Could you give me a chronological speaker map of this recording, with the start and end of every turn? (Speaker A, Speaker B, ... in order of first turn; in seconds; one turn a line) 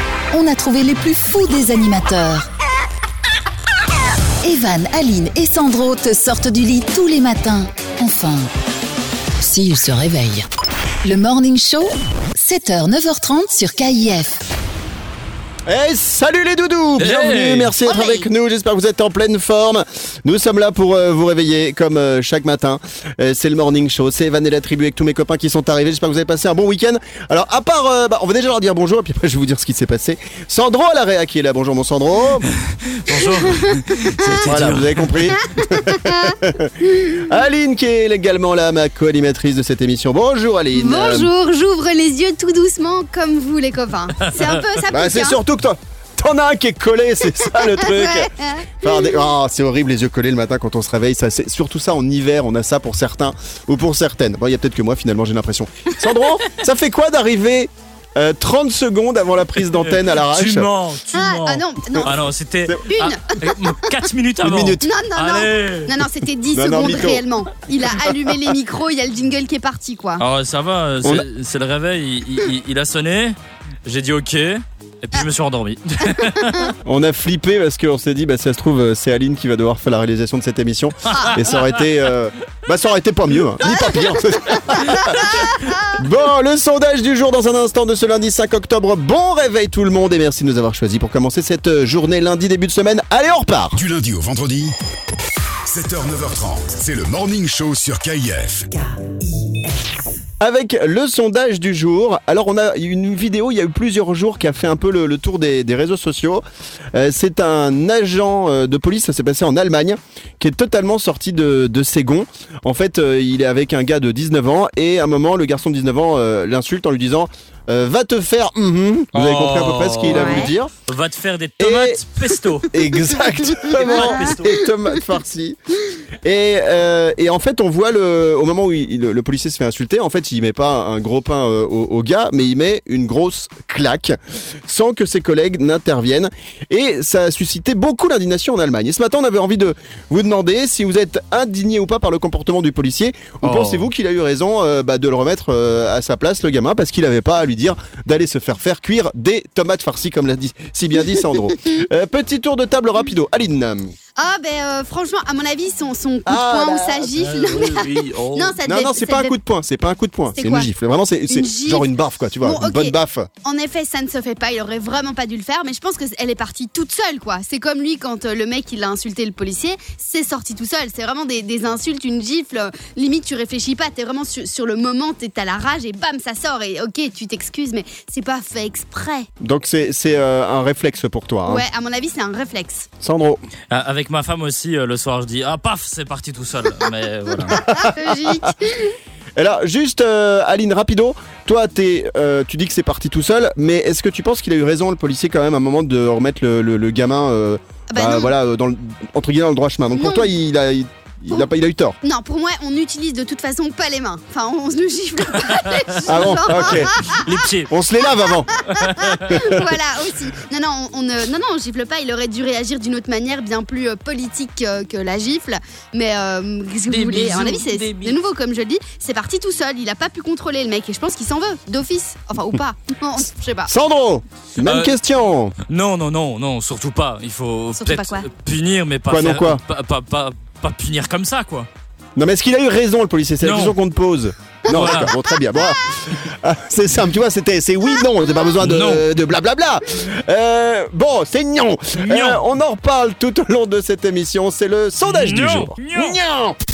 Speaker A: 0.3-2.5
Speaker A: 4.4-8.5
Speaker A: 9.4-10.5
Speaker A: 11.0-14.4
Speaker B: 15.7-32.5
Speaker C: 17.0-17.7
Speaker D: 17.9-18.3
Speaker C: 32.6-35.3
Speaker D: 33.6-34.3
Speaker B: 34.4-41.3
Speaker D: 35.6-37.2
Speaker D: 40.7-45.4
Speaker C: 44.2-44.6
Speaker B: 44.9-60.7
Speaker D: 47.7-49.2
Speaker C: 59.6-66.0
Speaker D: 61.1-62.1
Speaker D: 62.9-63.6
Speaker B: 64.4-64.8
Speaker D: 64.8-70.2
Speaker B: 66.5-67.2
Speaker C: 70.2-76.7
Speaker B: 76.8-93.8
Speaker C: 81.1-81.8
Speaker D: 81.1-81.3
Speaker D: 83.7-84.0
Speaker D: 84.6-86.0
Speaker E: 93.7-94.7
Speaker E: 95.7-98.7
Speaker B: 100.4-120.7
Speaker C: 119.1-122.7
Speaker D: 120.1-120.5
Speaker B: 121.6-122.0
Speaker B: 122.7-125.6
Speaker C: 123.6-124.7
Speaker D: 123.9-124.3
Speaker B: 126.2-153.9
Speaker C: 143.4-143.9
Speaker D: 154.2-159.3
Speaker B: 156.2-157.1
Speaker C: 157.2-158.6
Speaker B: 158.7-163.3
Speaker D: 160.4-160.7
Speaker D: 161.3-161.9
Speaker D: 162.4-179.3
Speaker B: 179.4-181.6
Speaker D: 181.4-182.9
Speaker B: 183.0-183.4
Speaker C: 183.7-187.6
Speaker B: 187.4-188.5
Speaker D: 187.7-188.9
Speaker B: 189.3-202.0
Speaker D: 197.9-198.3
Speaker D: 199.9-200.3
Speaker D: 202.0-207.2
Speaker B: 206.1-207.0
Speaker C: 206.5-207.7
Speaker B: 207.7-208.5
Speaker C: 208.7-209.2
Speaker D: 208.8-223.7
Speaker B: 209.3-209.5
Speaker C: 216.9-218.2
Speaker B: 223.7-225.6
Speaker C: 224.6-224.9
Speaker C: 225.7-231.7
Speaker D: 227.8-228.3
Speaker B: 229.1-229.6
Speaker B: 232.2-246.6
Speaker C: 233.4-233.7
Speaker C: 234.7-235.1
Speaker C: 238.6-239.1
Speaker C: 242.1-242.4
Speaker C: 245.0-246.2